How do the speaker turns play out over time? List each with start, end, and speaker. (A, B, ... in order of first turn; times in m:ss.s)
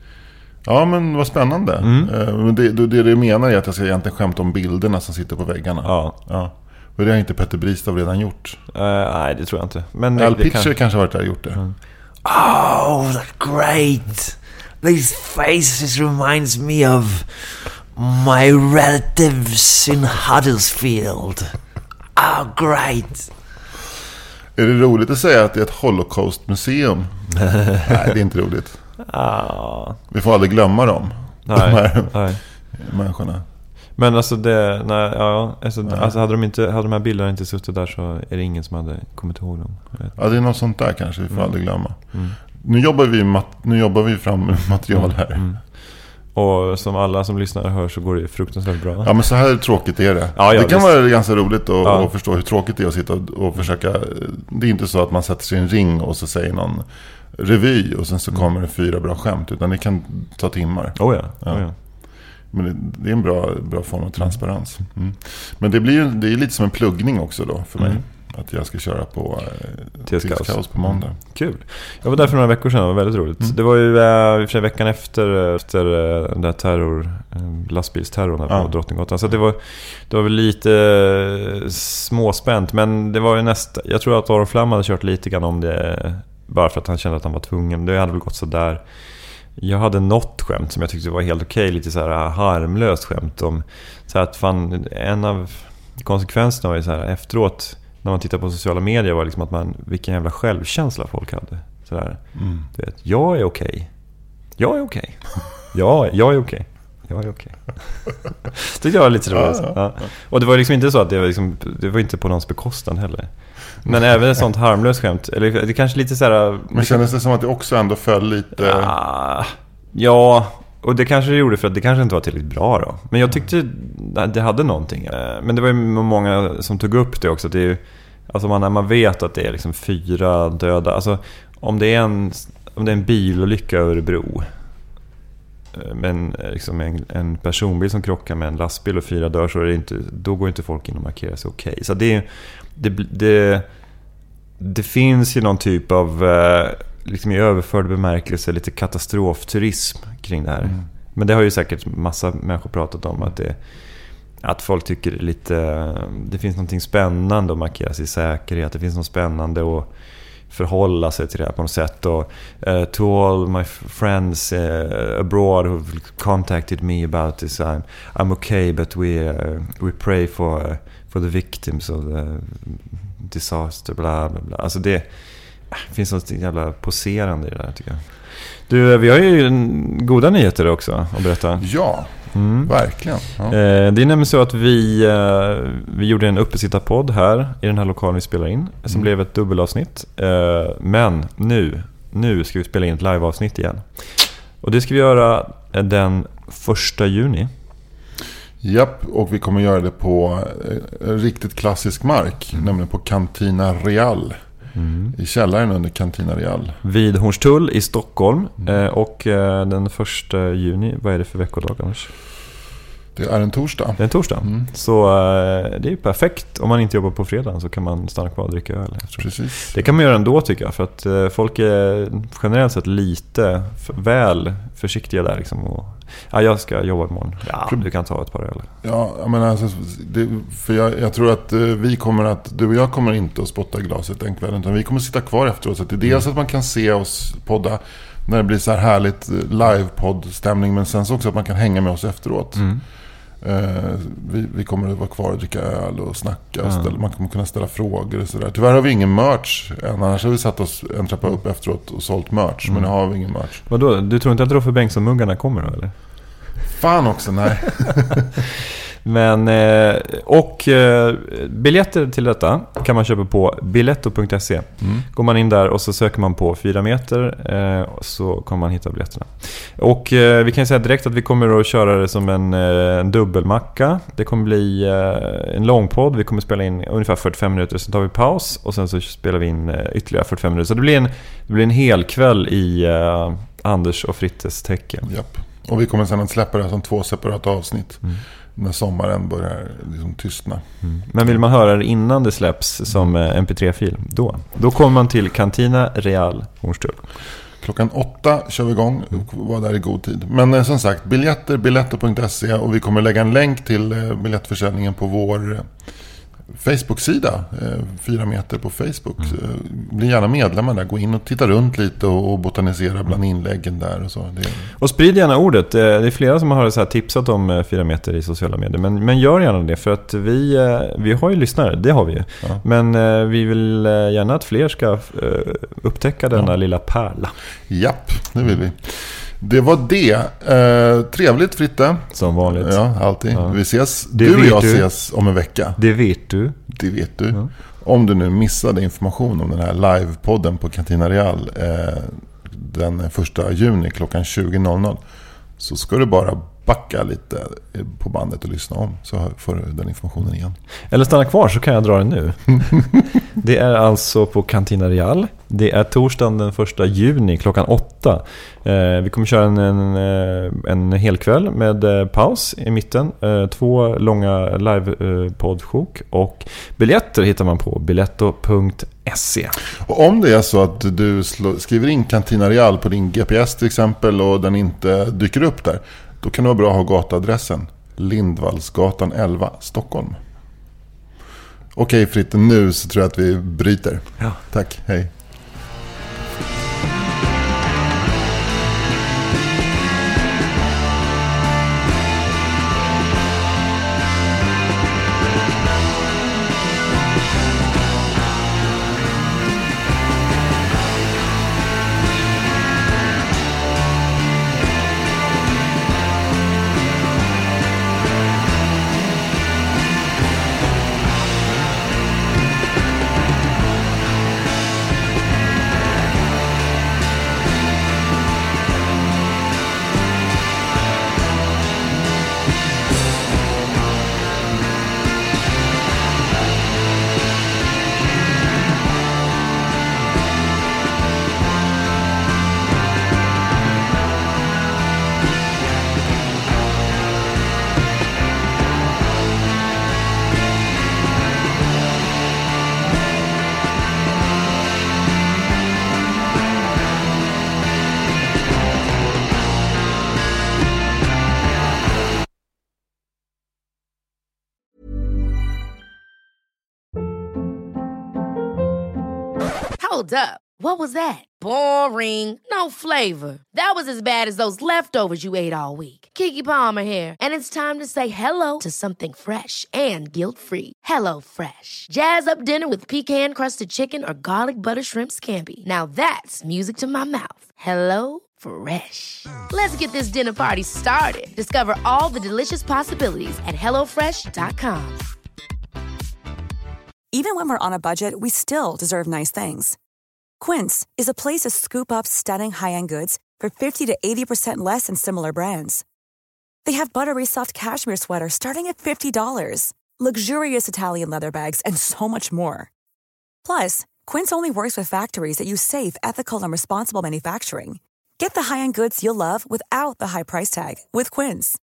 0:00.6-0:08.6 A
0:01.8-0:02.1 B
0:05.8-0:06.2 B
0:08.7-0:11.8 B
0:10.2-0:11.6 A
0:12.2-0:21.5 C
0:22.2-0:23.3 C
0:24.6-0:27.3 A
0:27.8-0:28.8 A
0:29.1-0:30.0 B
0:30.1-0:33.4 A
0:31.5-0:32.4 B
0:34.0-0:40.2 B
0:40.2-0:45.5 A
0:45.0-0:49.1 B
0:49.0-1:01.6 A
0:50.4-0:52.1 B
1:01.0-1:01.8 B
1:02.5-1:11.2 A
1:10.1-1:43.9 B
1:42.4-1:42.6 A
1:44.6-1:57.0 B
1:49.3-1:49.8 A
1:56.7-1:58.9 A
1:58.6-2:14.5 B
2:15.7-2:23.7 B
2:24.6-3:01.7 B
3:01.6-3:03.6 A
3:02.3-3:17.5 B
3:18.6-3:24.4 A
3:24.8-3:25.2 B
3:25.1-3:26.8 A
3:26.8-3:32.1 B
3:33.2-3:34.6 A
3:34.0-3:48.7 B
3:39.2-3:39.8 A
3:48.8-4:02.7 A
4:02.6-4:02.8 B
4:03.4-4:13.6 A
4:06.6-4:06.9 B
4:12.7-4:12.9 B
4:13.7-4:15.9 B
4:16.7-4:18.3 A
4:19.0-4:45.1 B
4:45.1-4:50.7 A
4:50.8-4:57.1 B
4:57.6-5:05.7 A
5:06.5-5:14.7 A
5:14.8-5:27.4 B
5:27.7-5:35.8 A
5:32.1-5:34.9 B
5:35.8-5:36.6 B
5:36.7-5:45.0 A
5:45.6-5:50.6 A
5:50.9-6:09.6 B
6:09.8-6:20.2 A
6:21.7-6:25.1 A
7:39.8-8:05.0 D
8:07.1-8:09.8 E
8:10.4-8:15.8 E
8:16.6-8:22.7 E
8:23.4-8:31.6 E